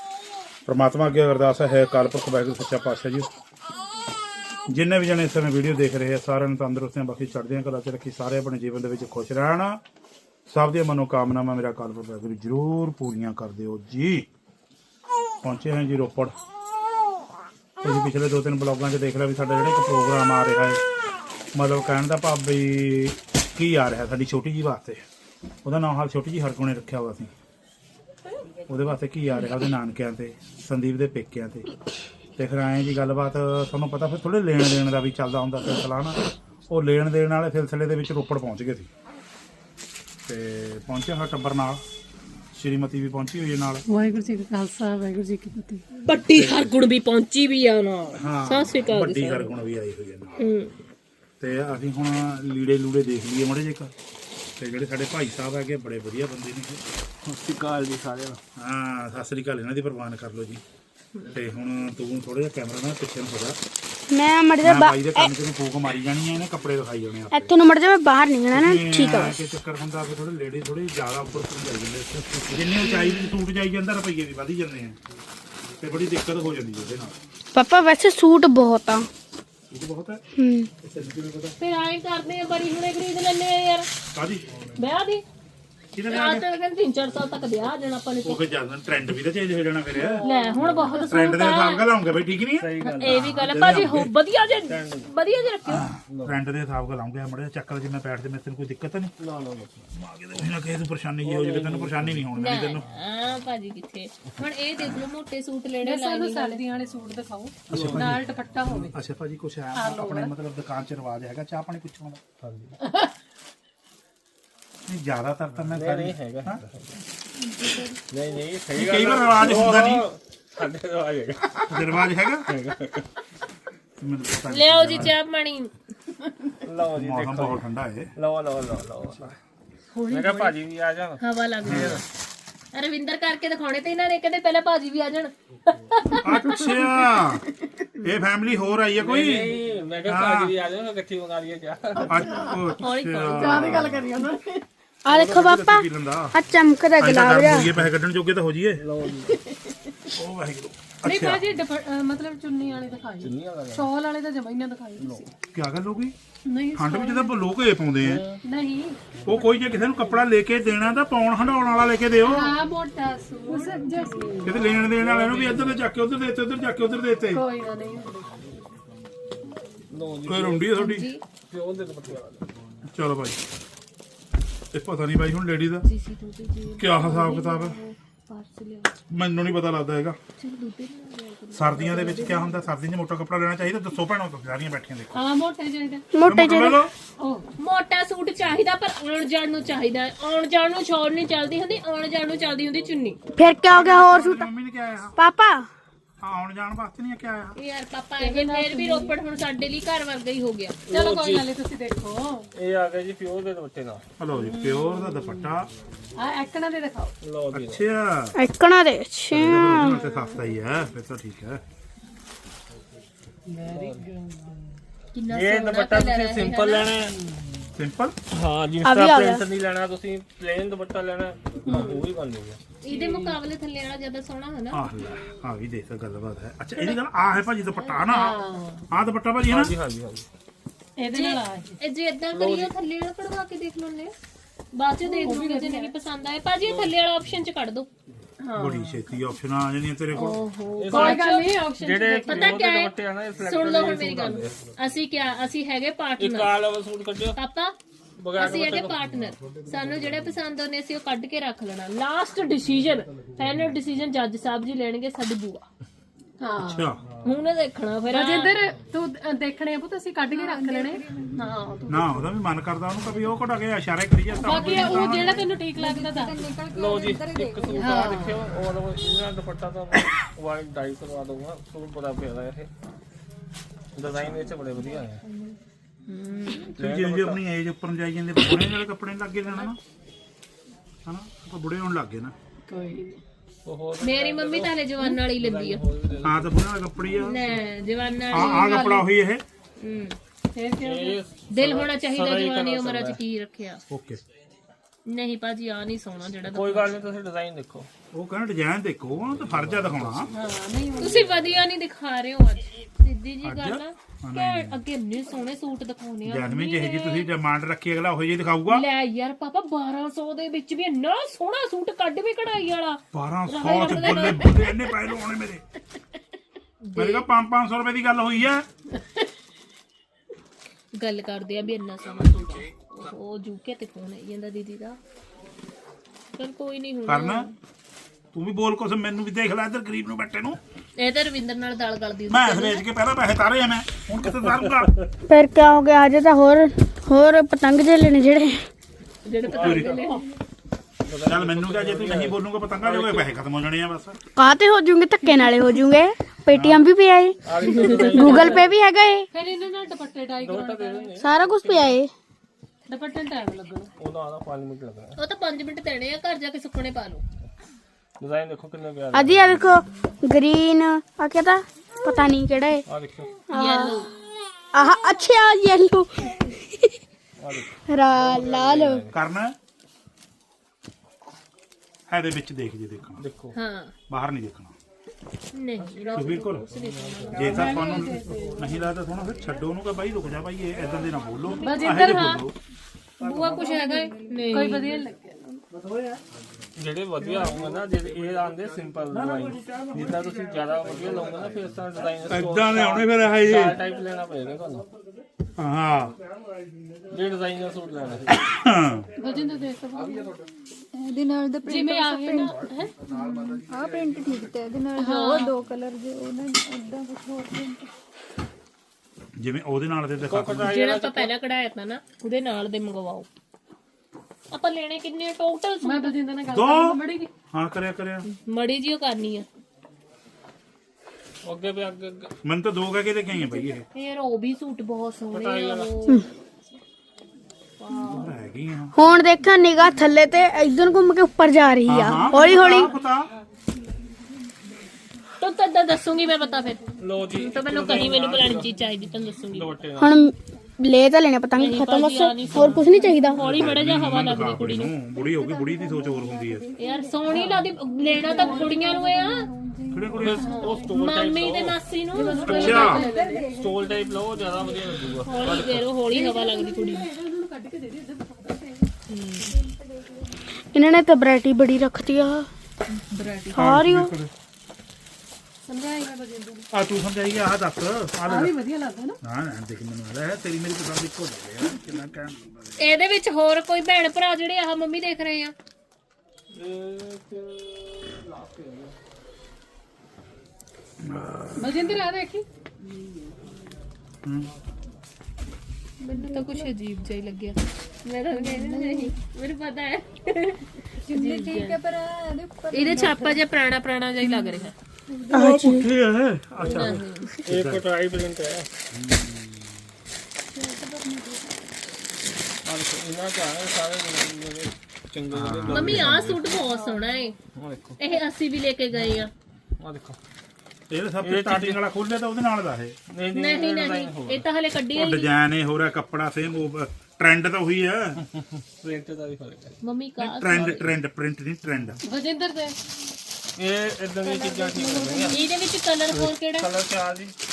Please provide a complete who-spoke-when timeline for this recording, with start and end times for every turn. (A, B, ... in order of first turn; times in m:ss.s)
0:00.6-0:03.3 A
0:04.7-0:09.8 A
0:10.5-0:14.3 A
0:15.4-0:16.3 A
0:17.8-0:20.8 A
0:21.5-0:25.0 A
0:25.6-0:27.3 A
0:28.7-0:31.7 A
0:32.4-0:38.9 A
0:40.2-0:41.8 A
0:42.5-0:43.8 A
0:43.9-0:45.8 B
0:46.0-0:49.5 C
0:46.3-0:46.7 A
0:48.2-0:50.4 A
0:50.4-0:50.7 C
0:51.4-0:53.9 A
0:54.6-0:56.8 A
0:57.2-0:58.4 D
0:58.6-1:00.6 A
1:01.3-1:03.6 A
1:04.1-1:05.3 E
1:04.6-1:07.5 A
1:07.3-1:09.4 E
1:08.5-1:15.0 A
1:15.8-1:17.2 A
1:17.5-1:19.1 E
1:19.7-1:20.2 A
1:20.4-1:20.7 E
1:20.8-1:21.6 A
1:21.6-1:23.9 C
1:24.1-1:24.5 A
1:24.8-1:25.2 C
1:26.0-1:26.4 A
1:26.1-1:28.4 C
1:28.2-1:30.3 A
1:30.0-1:31.0 D
1:30.2-1:31.9 C
1:31.1-1:34.1 A
1:32.6-1:33.4 D
1:32.8-1:35.8 C
1:34.7-1:35.1 D
1:35.7-1:39.1 A
1:36.1-1:36.4 D
1:39.2-1:39.9 D
1:39.9-1:42.8 A
1:41.2-1:42.2 D
1:42.3-1:46.6 C
1:45.8-1:49.0 B
1:47.7-1:52.2 A
1:47.7-1:48.0 D
1:49.7-1:50.3 B
1:52.4-1:52.7 D
1:52.8-1:53.1 B
1:54.9-1:56.6 A
1:55.7-1:57.0 D
1:57.4-1:58.0 F
1:58.1-2:01.8 D
1:58.7-2:00.1 A
2:01.7-2:02.5 A
2:02.4-2:03.0 D
2:04.0-2:05.1 A
2:04.5-2:05.7 C
2:06.6-2:07.6 D
2:06.9-2:08.1 A
2:08.2-2:09.4 D
2:09.9-2:10.6 C
2:10.1-2:12.0 D
2:11.2-2:12.0 C
2:11.6-2:12.0 A
2:12.7-2:16.6 C
2:16.2-2:17.4 A
2:18.0-2:20.5 A
2:19.0-2:22.3 D
2:22.0-2:24.1 A
2:22.2-2:22.6 B
2:22.8-2:23.9 C
2:23.3-2:24.6 B
2:25.0-2:27.7 E
2:25.1-2:26.3 A
2:27.0-2:28.8 A
2:28.8-2:29.4 D
2:30.1-2:31.4 A
2:31.0-2:35.3 B
2:33.2-2:33.9 D
2:35.0-2:35.3 D
2:35.5-2:36.1 A
2:36.4-2:37.4 B
2:36.7-2:38.2 A
2:38.0-2:38.4 D
2:38.4-2:39.0 B
2:39.2-2:42.6 A
2:42.2-2:44.7 B
2:43.5-2:44.4 F
2:44.4-2:47.5 A
2:44.7-2:45.9 D
2:47.3-2:48.4 B
2:49.9-2:50.8 D
2:50.2-2:51.1 A
2:50.7-2:51.2 C
2:51.5-2:52.5 D
2:52.9-2:53.4 A
2:54.7-2:55.8 A
2:55.8-2:58.9 C
2:56.8-2:57.8 A
2:59.1-3:00.2 A
3:00.4-3:02.6 C
3:01.5-3:05.2 A
3:05.1-3:06.1 B
3:06.1-3:06.8 E
3:06.2-3:06.9 A
3:07.2-3:07.4 B
3:07.6-3:13.2 C
3:13.4-3:14.4 E
3:13.6-3:15.1 A
3:15.2-3:15.6 E
3:16.2-3:17.6 A
3:17.6-3:20.8 C
3:18.2-3:19.2 B
3:20.9-3:21.5 D
3:20.9-3:22.4 B
3:22.5-3:24.0 D
3:24.2-3:25.7 A
3:24.4-3:25.5 B
3:26.2-3:27.1 B
3:27.2-3:27.8 D
3:27.5-3:28.3 A
3:28.4-3:30.0 E
3:29.3-3:31.6 A
3:29.8-3:30.3 C
3:33.5-3:34.7 B
3:33.6-3:34.1 D
3:35.1-3:36.9 C
3:35.3-3:37.1 D
3:37.1-3:37.4 B
3:37.8-3:38.2 A
3:38.3-3:42.6 D
3:38.8-3:39.4 E
3:41.6-3:42.1 B
3:42.8-3:44.8 C
3:42.9-3:43.4 B
3:44.7-3:48.4 A
3:47.8-3:48.3 C
3:48.1-3:48.8 B
3:48.9-3:49.7 A
3:49.4-3:50.3 D
3:51.0-3:51.7 B
3:51.1-3:54.1 C
3:52.3-3:52.7 D
3:54.7-3:57.9 C
3:55.0-3:55.9 B
3:56.6-3:56.9 D
3:58.4-3:59.0 B
3:58.6-4:00.4 A
4:00.1-4:01.5 C
4:00.8-4:04.7 D
4:00.9-4:02.7 B
4:02.2-4:06.6 C
4:06.2-4:07.4 D
4:07.4-4:07.8 C
4:08.2-4:09.1 D
4:08.3-4:15.7 C
4:16.4-4:16.9 B
4:16.6-4:17.0 A
4:17.2-4:18.6 C
4:18.1-4:22.3 B
4:20.3-4:21.5 F
4:21.9-4:25.5 A
4:24.4-4:26.5 B
4:24.5-4:28.0 F
4:26.7-4:32.7 D
4:27.7-4:28.4 B
4:33.9-4:35.2 D
4:34.0-4:34.4 A
4:36.1-4:36.7 C
4:36.7-4:37.4 D
4:36.8-4:39.8 A
4:41.0-4:42.3 A
4:42.7-4:43.2 B
4:43.6-4:46.5 D
4:44.0-4:45.8 C
4:46.2-4:47.4 A
4:47.2-4:49.0 C
4:48.3-4:49.1 B
4:48.3-4:49.4 A
4:49.8-4:50.2 C
4:50.5-4:51.2 B
4:50.8-4:53.2 D
4:51.5-4:53.8 C
4:53.9-4:54.2 A
4:55.0-4:56.9 C
4:56.5-4:57.9 D
4:58.1-5:00.3 A
4:59.6-5:00.4 D
5:00.3-5:01.3 B
5:01.0-5:07.3 C
5:01.0-5:01.6 D
5:03.4-5:04.8 A
5:06.2-5:08.8 A
5:08.7-5:14.9 C
5:13.1-5:15.6 A
5:16.8-5:17.2 C
5:17.0-5:18.7 A
5:20.9-5:25.0 C
5:26.4-5:27.5 C
5:27.0-5:27.5 A
5:28.3-5:30.6 A
5:31.0-5:32.8 C
5:32.3-5:35.0 A
5:35.3-5:38.6 E
5:39.2-5:40.2 C
5:39.4-5:40.0 D
5:39.5-5:40.0 A
5:41.0-5:43.3 D
5:41.2-5:44.2 A
5:44.4-5:49.3 E
5:46.5-5:46.9 A
5:47.4-5:48.7 D
5:47.8-5:48.4 C
5:49.3-5:51.2 B
5:50.4-5:51.3 D
5:51.2-5:52.1 E
5:52.9-5:53.9 B
5:54.0-5:55.2 D
5:55.2-5:57.2 C
5:58.2-5:59.6 D
5:59.1-6:02.8 E
6:02.9-6:03.4 D
6:03.5-6:04.1 E
6:03.5-6:04.1 C
6:04.7-6:06.9 E
6:07.4-6:09.2 D
6:07.9-6:09.0 E
6:09.1-6:09.6 A
6:12.1-6:13.2 A
6:13.2-6:13.6 D
6:13.5-6:13.9 C
6:14.1-6:14.7 A
6:15.5-6:18.0 C
6:16.0-6:17.9 D
6:16.1-6:16.7 A
6:17.3-6:22.5 A
6:17.4-6:18.6 B
6:21.4-6:22.4 C
6:21.6-6:22.4 B
6:23.2-6:25.0 C
6:23.2-6:23.6 D
6:23.2-6:24.9 F
6:23.6-6:25.6 B
6:25.7-6:26.2 A
6:26.8-6:34.9 D
6:29.1-6:31.0 A
6:32.3-6:33.8 A
6:35.6-6:36.2 A
6:37.1-6:38.3 D
6:38.3-6:39.1 A
6:39.2-6:40.3 B
6:40.9-6:47.9 F
6:41.6-6:43.0 B
6:45.0-6:45.5 C
6:45.0-6:45.5 B
6:49.4-6:50.8 A
6:50.2-6:51.3 D
6:50.6-6:53.3 C
6:54.5-6:56.2 C
6:55.8-6:57.3 B
6:56.5-6:57.0 A
6:57.5-6:58.3 A
6:58.3-6:59.5 C
7:01.4-7:02.3 D
7:02.4-7:03.8 A
7:03.9-7:06.2 C
7:05.3-7:05.9 D
7:07.8-7:08.3 C
7:08.1-7:08.9 A
7:08.9-7:12.9 E
7:11.9-7:13.3 A
7:12.4-7:12.7 C
7:15.4-7:19.8 C
7:17.0-7:18.7 D
7:19.5-7:20.2 D
7:20.0-7:23.6 E
7:21.6-7:24.9 C
7:23.4-7:26.7 A
7:25.1-7:30.9 F
7:26.8-7:29.4 C
7:27.3-7:27.7 B
7:28.2-7:28.8 B
7:29.9-7:30.5 A
7:30.2-7:31.8 D
7:30.4-7:30.9 B
7:30.9-7:33.1 C
7:32.1-7:33.5 B
7:32.4-7:33.0 A
7:32.5-7:35.5 F
7:33.5-7:35.9 D
7:35.2-7:37.1 C
7:36.1-7:38.9 B
7:39.1-7:39.5 C
7:39.5-7:40.4 F
7:40.7-7:42.5 E
7:42.9-7:43.6 C
7:43.5-7:44.1 E
7:43.5-7:44.3 A
7:45.6-7:46.7 B
7:46.7-7:48.5 A
7:48.2-7:49.2 B
7:49.2-7:52.8 A
7:52.8-7:55.5 C
7:56.5-7:58.9 D
8:01.0-8:02.0 A
8:01.6-8:02.4 B
8:04.2-8:04.5 A
8:06.0-8:06.7 F
8:06.0-8:11.8 C
8:08.3-8:09.2 F
8:11.0-8:13.4 F
8:12.7-8:14.7 C
8:14.2-8:15.5 F
8:15.3-8:15.9 E
8:15.3-8:17.8 A
8:16.6-8:18.7 D
8:16.6-8:17.3 C
8:18.9-8:19.7 A
8:20.5-8:21.5 F
8:22.6-8:26.5 D
8:25.3-8:26.2 A
8:25.7-8:27.4 C
8:26.5-8:27.2 F
8:27.5-8:28.0 D
8:28.0-8:29.3 C
8:29.8-8:30.2 D
8:30.9-8:33.0 A
8:31.2-8:31.8 D
8:33.1-8:34.4 D
8:33.3-8:35.3 C
8:34.9-8:38.2 A
8:38.2-8:39.8 D
8:39.8-8:40.8 C
8:40.2-8:42.0 A
8:42.0-8:42.7 B
8:43.6-8:45.4 D
8:44.2-8:45.5 F
8:45.3-8:46.7 C
8:46.5-8:47.3 D